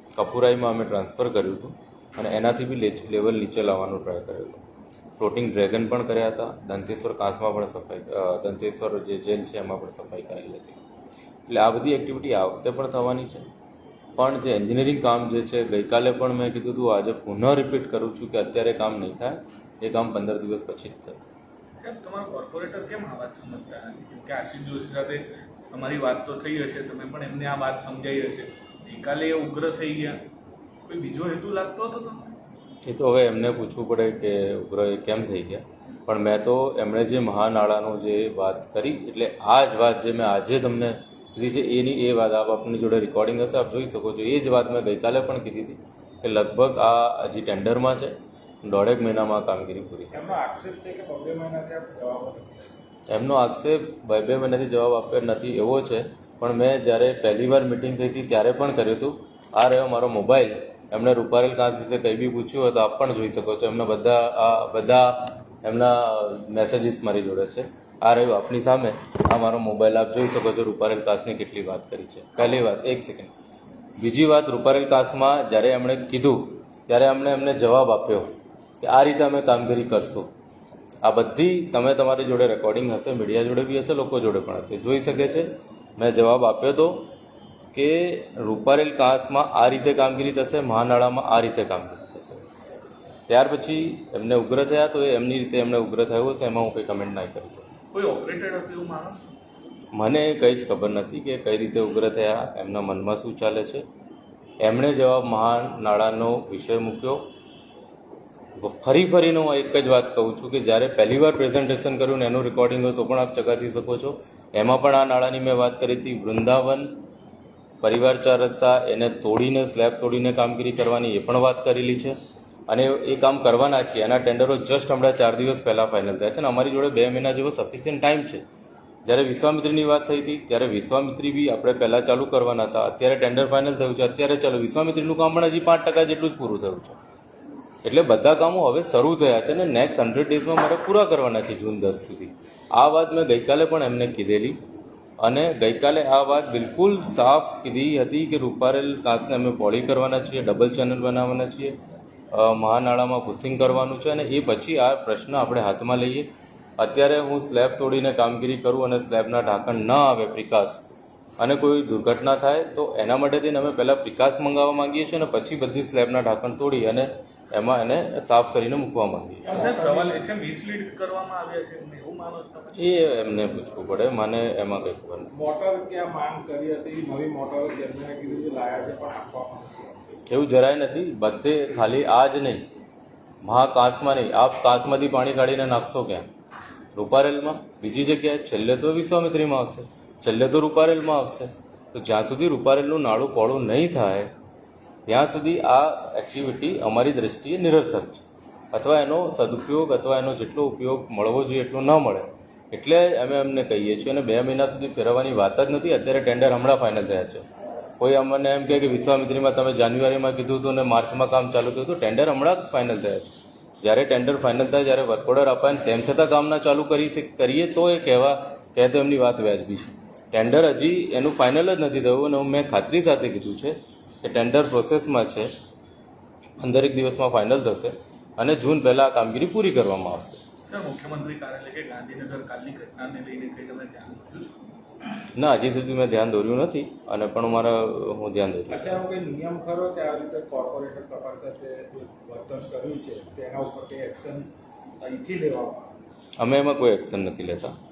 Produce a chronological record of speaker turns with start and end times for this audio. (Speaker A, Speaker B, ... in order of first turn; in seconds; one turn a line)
Speaker A: 0.1-4.6
Speaker A: 5.2-10.8
Speaker A: 11.5-13.5
Speaker A: 14.2-21.3
Speaker B: 21.8-30.2
Speaker B: 30.9-32.4
Speaker A: 32.8-50.4
Speaker C: 50.1-52.7
Speaker A: 53.1-73.3
Speaker A: 74.0-78.3
Speaker A: 78.8-80.3
Speaker A: 81.0-87.1
Speaker A: 87.7-92.4
Speaker A: 93.3-97.7
Speaker B: 97.9-99.2
Speaker A: 99.9-103.8
Speaker A: 104.6-107.2
Speaker A: 108.6-117.0
Speaker A: 117.8-122.1
Speaker A: 122.7-128.4
Speaker A: 129.0-137.0
Speaker A: 137.8-144.6
Speaker A: 145.2-151.8
Speaker A: 152.3-160.8
Speaker A: 161.4-169.6
Speaker B: 169.5-172.9
Speaker C: 169.5-170.1
Speaker A: 172.7-175.3
Speaker C: 175.3-180.1
Speaker A: 180.3-182.7
Speaker A: 183.4-186.3
Speaker A: 186.9-194.3
Speaker A: 195.1-207.4
Speaker A: 208.0-225.5
Speaker A: 226.6-230.4
Speaker B: 230.7-234.5
Speaker A: 235.3-239.0
Speaker C: 238.7-244.5
Speaker C: 245.0-245.9
Speaker A: 246.4-247.7